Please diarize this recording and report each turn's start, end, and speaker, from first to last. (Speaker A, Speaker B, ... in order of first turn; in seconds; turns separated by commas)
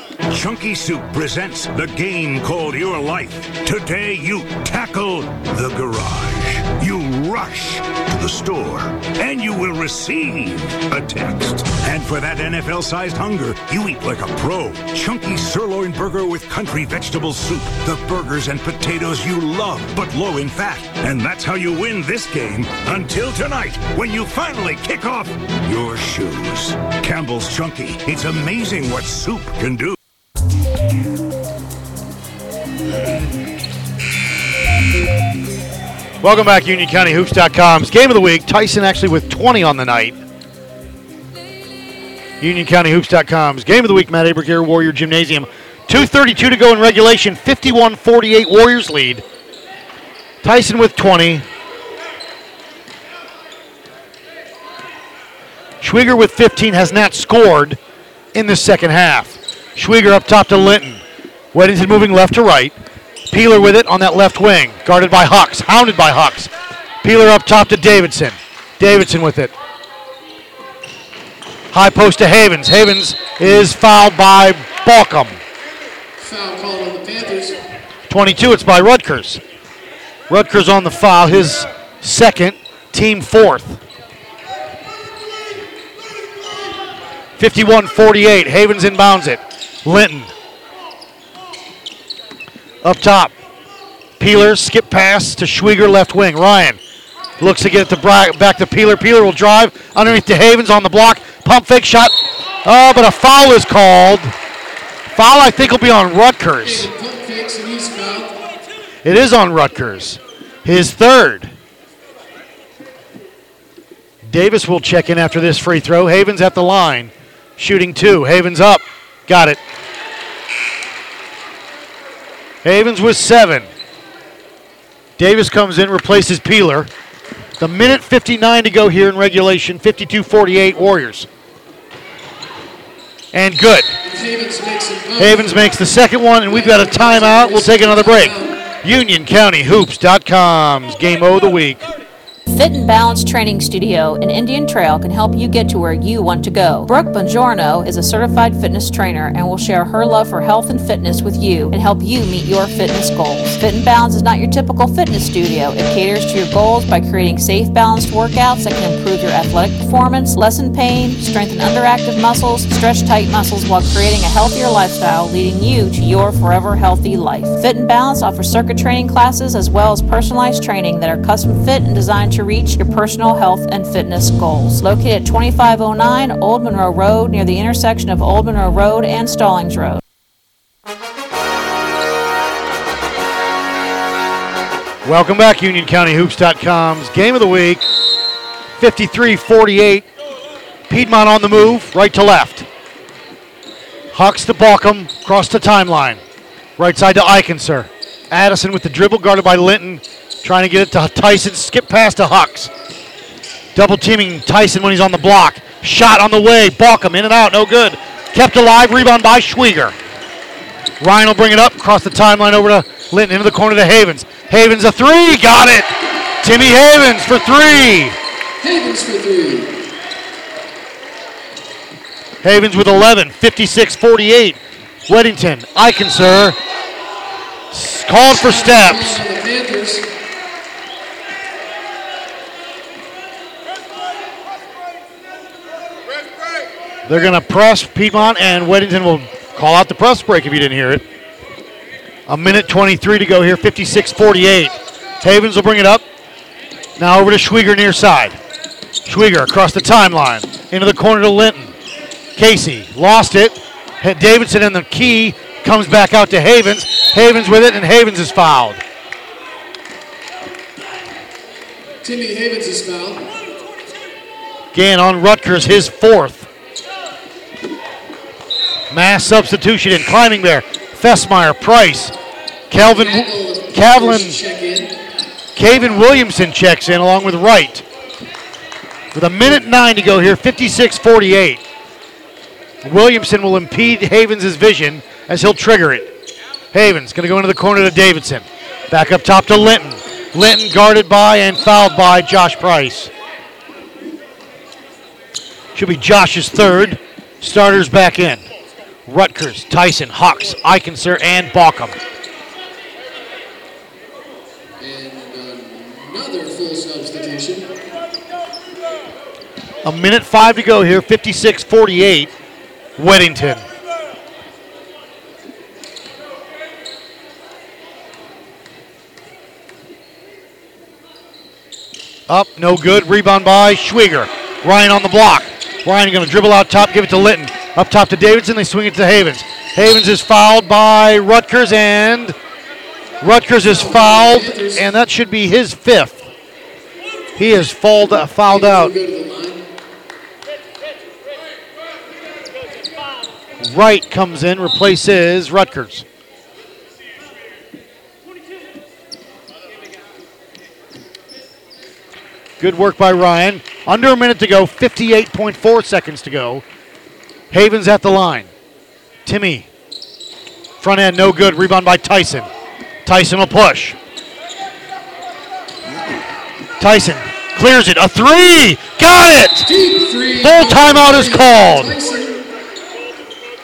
Speaker A: 0.3-29.9, Speaker B: 36.2-40.2, Speaker B: 42.4-49.2, Speaker B: 50.4-51.5, Speaker B: 55.8-57.8, Speaker B: 58.3-61.0, Speaker B: 61.5-62.8, Speaker B: 63.3-66.5, Speaker B: 67.0-69.5, Speaker B: 71.7-75.4, Speaker C: 76.2-77.6, Speaker B: 78.1-79.4, Speaker B: 80.3-83.8, Speaker B: 87.4-90.3, Speaker B: 92.8-93.3, Speaker B: 94.2-96.8, Speaker B: 97.4-104.3, Speaker B: 105.1-106.9, Speaker C: 106.6-108.3, Speaker B: 109.0-111.5, Speaker B: 114.2-119.6, Speaker B: 122.6-123.7, Speaker B: 125.2-126.9, Speaker B: 127.6-131.3, Speaker B: 133.3-133.9, Speaker C: 134.0-135.8, Speaker B: 135.2-141.8, Speaker C: 136.5-138.6, Speaker D: 142.5-180.0, Speaker B: 185.0-187.9, Speaker B: 188.8-190.1, Speaker B: 190.9-192.7, Speaker B: 194.1-196.2, Speaker B: 196.8-202.7, Speaker B: 203.7-209.9, Speaker B: 211.0-218.2, Speaker C: 218.6-219.7, Speaker B: 222.4-226.6, Speaker B: 227.7-229.2, Speaker C: 228.3-230.1, Speaker B: 237.1-241.0, Speaker B: 242.3-246.0, Speaker B: 247.0-248.4, Speaker B: 249.0-251.7, Speaker B: 252.3-258.8, Speaker C: 262.0-263.3, Speaker B: 264.7-266.5, Speaker B: 268.9-272.1, Speaker B: 272.7-274.4, Speaker C: 272.7-274.9, Speaker B: 275.6-277.8, Speaker B: 279.1-281.6, Speaker B: 282.8-286.1, Speaker B: 286.7-293.1, Speaker B: 295.7-298.4, Speaker B: 299.1-302.0, Speaker C: 304.8-307.7, Speaker B: 309.8-312.3, Speaker B: 313.0-313.6, Speaker B: 322.3-332.4, Speaker B: 333.2-336.2, Speaker C: 333.6-334.8, Speaker B: 337.4-338.9, Speaker C: 338.5-339.6, Speaker B: 343.6-346.1, Speaker B: 352.6-356.6, Speaker B: 357.5-358.5, Speaker B: 359.2-359.7, Speaker B: 360.8-362.5, Speaker B: 363.0-364.0, Speaker B: 366.8-369.7, Speaker C: 369.7-372.4, Speaker B: 370.4-371.9